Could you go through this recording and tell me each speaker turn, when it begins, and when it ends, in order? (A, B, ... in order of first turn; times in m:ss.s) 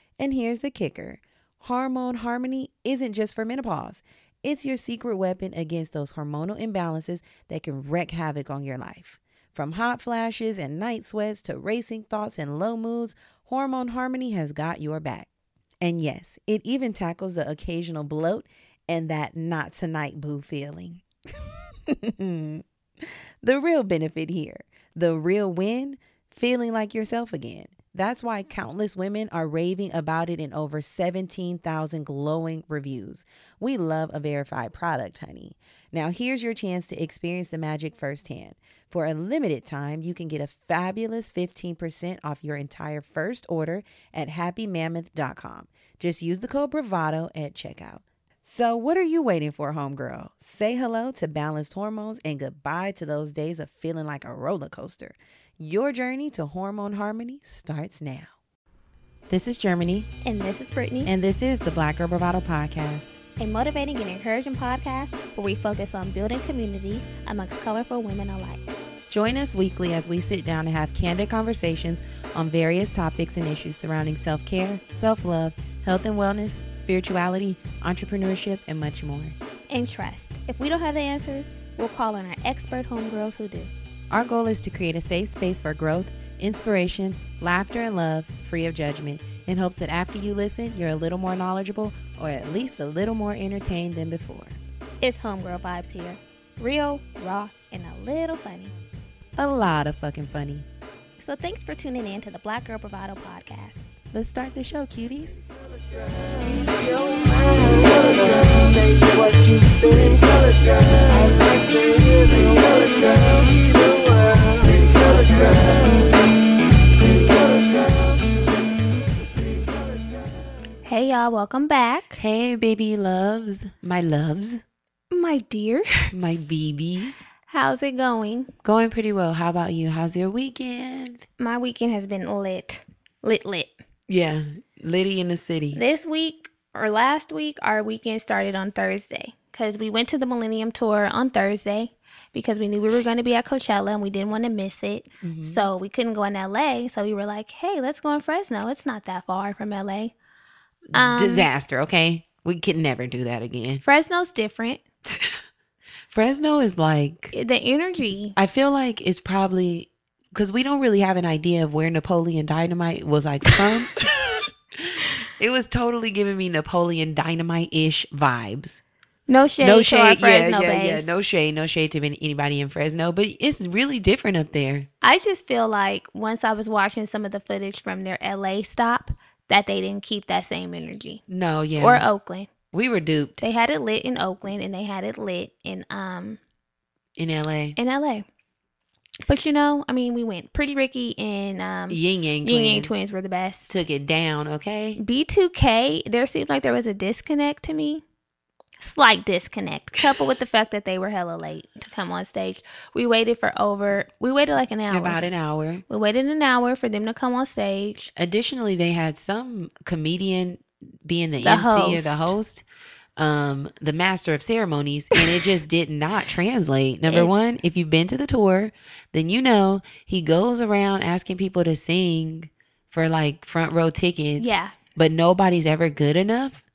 0:00.2-0:15.3 A
0:15.8-0:22.6 A
0:23.4-0:58.3 A
0:59.3-1:00.1 A
1:00.2-1:01.1 B
1:01.0-1:03.2 A
1:03.4-1:08.7 B
1:09.1-1:19.4 A
1:19.7-1:23.7 B
1:24.1-1:34.6 A
1:35.0-1:38.7 B
1:39.4-1:40.7 A
1:41.2-1:43.9 B
1:44.1-1:45.4 A
1:46.9-1:50.3 C
1:51.1-1:53.2 C
1:54.3-1:55.8 C
2:00.8-2:02.2 B
2:02.2-2:04.6 A
2:05.1-2:06.4 B
2:06.1-2:07.2 A
2:07.4-2:08.5 B
2:08.6-2:11.2 A
2:11.4-2:13.7 B
2:14.1-2:15.8 A
2:15.7-2:30.1 B
2:25.2-2:25.7 A
2:30.9-2:33.8 A
2:30.9-2:31.5 B
2:33.8-2:34.8 B
2:35.1-2:35.3 A
2:36.1-2:37.3 A
2:37.3-2:38.3 B
2:38.4-2:48.8 A
2:49.3-2:51.1 B
2:49.6-2:54.9 A
2:55.0-3:01.2 B
3:01.3-3:02.0 A
3:01.8-3:02.5 B
3:02.7-3:03.4 A
3:03.4-3:06.4 B
3:07.2-3:07.8 A
3:07.8-3:08.2 B
3:09.2-3:13.7 B
3:11.9-3:13.0 A
3:13.7-3:15.0 A
3:15.0-3:18.0 B
3:18.8-3:25.2 B
3:24.9-3:25.8 A
3:25.9-3:28.1 B
3:28.2-3:32.6 A
3:31.4-3:32.3 B
3:33.2-3:46.6 A
3:44.4-3:44.7 B